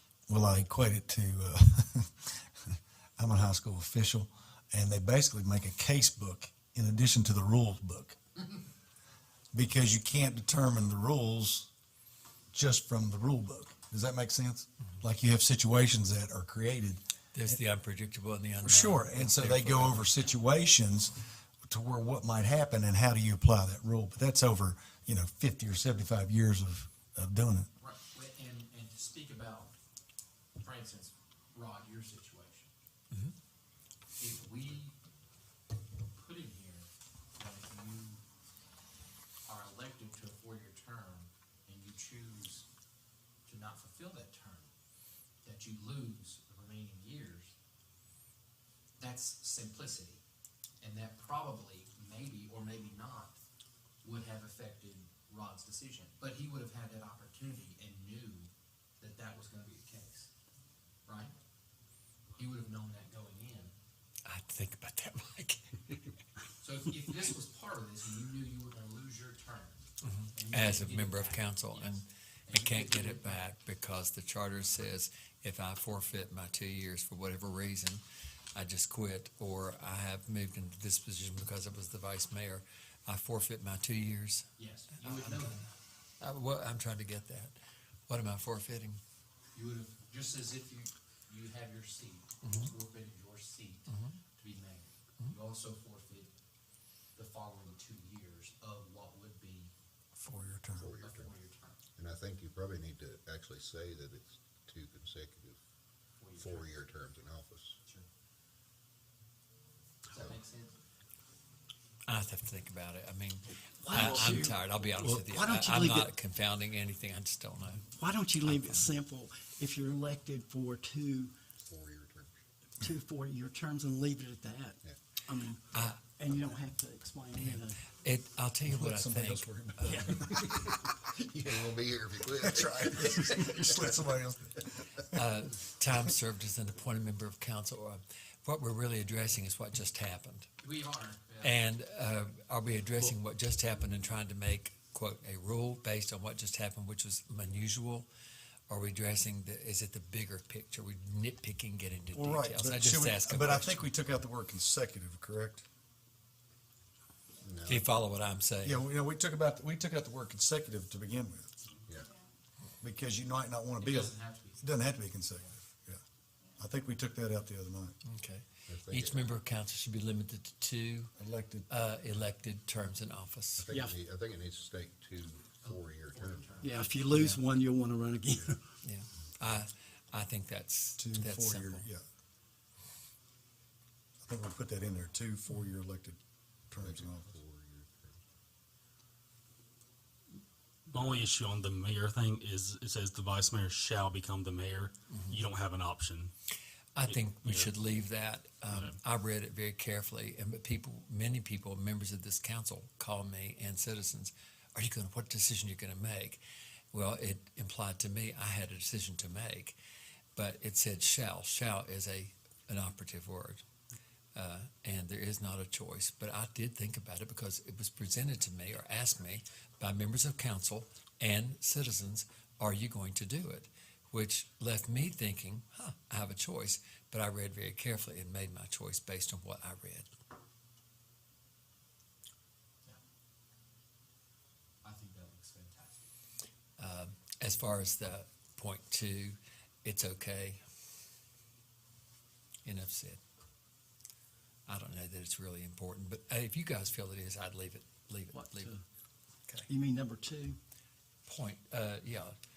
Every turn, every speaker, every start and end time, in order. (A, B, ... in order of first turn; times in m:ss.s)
0:00.3-0:08.2 A
0:09.5-0:11.7 A
0:12.5-0:17.6 A
0:17.3-0:20.1 B
0:18.6-0:27.7 A
0:27.8-0:29.7 C
0:30.6-0:32.7 C
0:34.2-0:34.9 C
0:36.1-0:38.2 C
0:39.5-0:42.6 C
0:43.4-0:44.7 C
0:45.4-0:47.5 C
0:49.0-0:50.2 C
0:50.8-0:53.4 C
0:54.0-1:00.3 C
1:01.0-1:01.3 C
1:02.3-1:03.7 C
1:04.2-1:06.1 B
1:06.6-1:09.8 C
1:10.0-1:18.0 B
1:10.3-1:13.4 C
1:18.5-1:24.5 B
1:24.6-1:25.7 C
1:25.0-1:25.5 B
1:26.2-1:27.5 B
1:28.1-1:29.0 B
1:29.5-1:36.3 C
1:32.4-1:32.7 B
1:33.9-1:34.2 B
1:37.1-1:39.7 C
1:40.2-1:40.9 A
1:40.8-1:41.3 D
1:40.9-1:41.8 C
1:42.0-1:45.6 D
1:46.2-1:46.8 C
1:46.4-1:47.8 D
1:50.1-1:50.7 C
1:52.1-1:57.8 B
1:53.8-1:56.1 E
1:57.9-2:01.3 E
1:58.4-1:58.9 B
2:01.6-2:02.3 D
2:02.8-2:07.8 E
2:05.7-2:06.0 B
2:07.4-2:10.4 B
2:08.6-2:10.9 A
2:09.8-2:10.7 E
2:11.2-2:13.9 D
2:12.4-2:15.2 A
2:15.1-2:20.5 B
2:20.6-2:21.6 C
2:21.4-2:28.0 B
2:28.7-2:33.9 B
2:32.1-2:35.6 A
2:37.4-2:37.9 D
2:37.6-2:38.8 B
2:38.6-2:41.5 A
2:42.8-2:46.0 A
2:43.8-2:44.9 C
2:46.6-2:48.0 A
2:48.0-2:51.1 B
2:48.7-2:49.4 D
2:51.2-2:51.7 A
2:51.7-2:53.7 B
2:53.6-2:56.7 D
2:53.7-2:53.9 E
2:55.6-2:57.4 C
2:56.6-2:58.6 E
2:57.1-2:57.4 B
2:58.8-3:01.8 B
3:01.0-3:02.0 A
3:04.2-3:06.2 A
3:06.7-3:07.4 A
3:06.8-3:08.2 D
3:10.9-3:16.3 F
3:15.1-3:15.4 B
3:17.0-3:29.8 B
3:17.0-3:17.7 F
3:18.7-3:19.0 F
3:30.4-3:33.6 B
3:34.3-3:50.1 B
3:54.8-3:56.0 C
3:56.8-4:00.6 B
4:02.6-4:03.2 B
4:04.7-4:08.7 B
4:08.3-4:08.8 E
4:09.7-4:10.6 E
4:11.2-4:12.4 B